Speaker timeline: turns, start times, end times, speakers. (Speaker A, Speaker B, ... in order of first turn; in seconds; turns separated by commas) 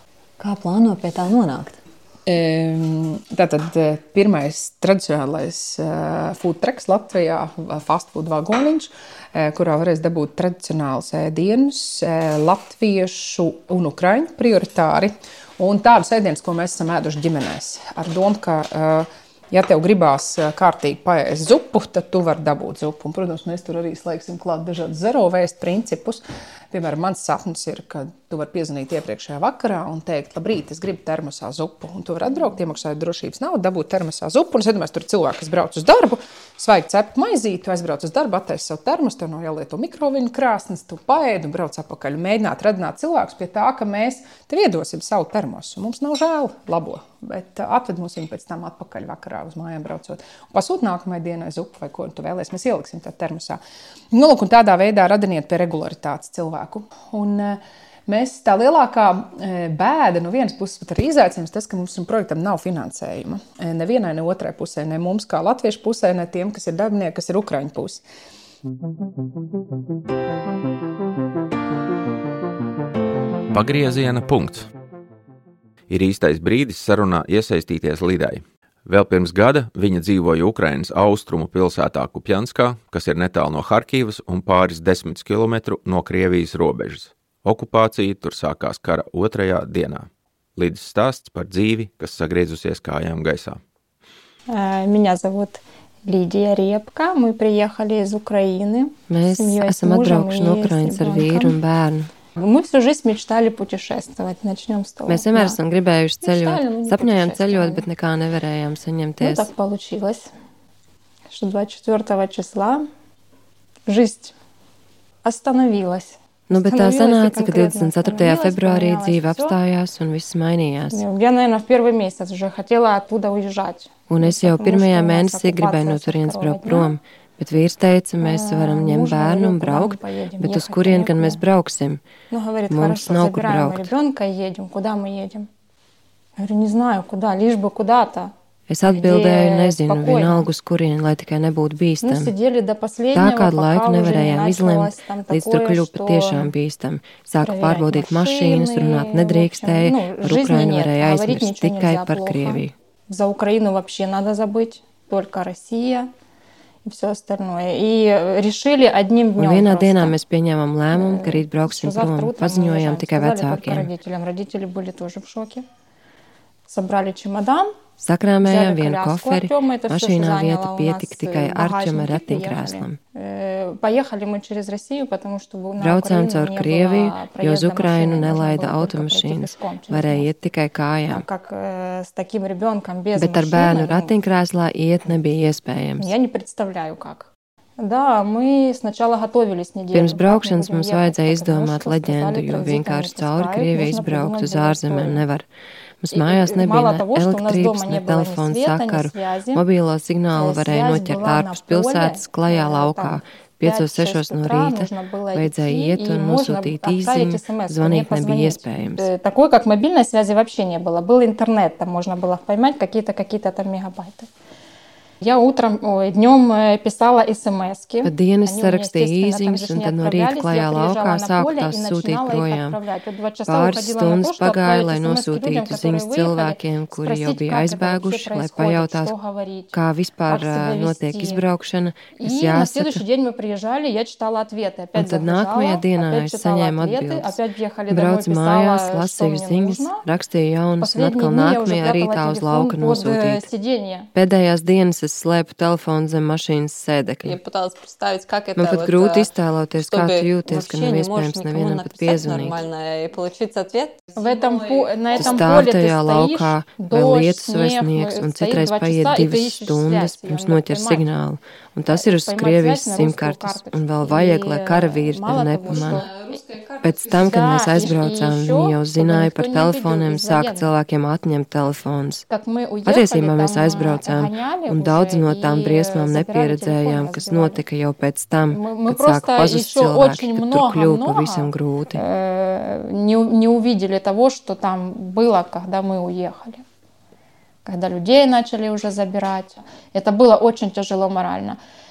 Speaker A: 0.4-1.8, Speaker B: 2.3-53.6, Speaker B: 54.1-68.0, Speaker C: 73.5-74.7, Speaker C: 75.9-93.6, Speaker D: 94.5-101.6, Speaker E: 99.1-102.1, Speaker D: 102.3-105.6, Speaker E: 105.1-109.5, Speaker D: 106.2-107.9, Speaker D: 109.2-110.3, Speaker D: 111.3-112.9, Speaker D: 113.9-114.3, Speaker D: 115.2-119.6, Speaker E: 116.5-121.0, Speaker D: 120.9-127.0, Speaker E: 124.1-132.0, Speaker D: 128.2-131.4, Speaker D: 132.3-135.5, Speaker E: 132.7-133.9, Speaker D: 136.4-138.3, Speaker E: 138.7-142.3, Speaker D: 138.9-140.5, Speaker D: 142.0-146.5, Speaker E: 143.1-152.7, Speaker D: 147.4-156.1, Speaker D: 156.8-160.2, Speaker E: 159.4-163.9, Speaker D: 160.9-165.7, Speaker D: 166.7-167.7, Speaker E: 168.0-173.0, Speaker D: 168.4-180.3, Speaker E: 175.8-181.2, Speaker D: 181.1-184.1, Speaker E: 183.2-186.1, Speaker D: 186.0-195.2, Speaker E: 189.9-195.5, Speaker E: 196.0-209.1, Speaker D: 196.1-199.6, Speaker D: 200.3-214.3, Speaker D: 215.2-229.7, Speaker E: 218.0-222.8, Speaker E: 223.5-229.1, Speaker E: 229.7-233.0, Speaker D: 230.3-231.4, Speaker D: 232.2-240.0, Speaker E: 234.9-243.5, Speaker D: 240.8-244.1, Speaker E: 244.2-247.4, Speaker A: 247.2-255.3, Speaker E: 248.6-252.6, Speaker D: 254.2-261.1, Speaker E: 255.2-266.1, Speaker D: 261.9-266.4, Speaker A: 266.1-267.0, Speaker E: 266.8-272.2, Speaker D: 267.1-270.7, Speaker D: 272.3-277.6, Speaker E: 272.9-282.0, Speaker D: 278.5-286.6, Speaker D: 287.6-291.6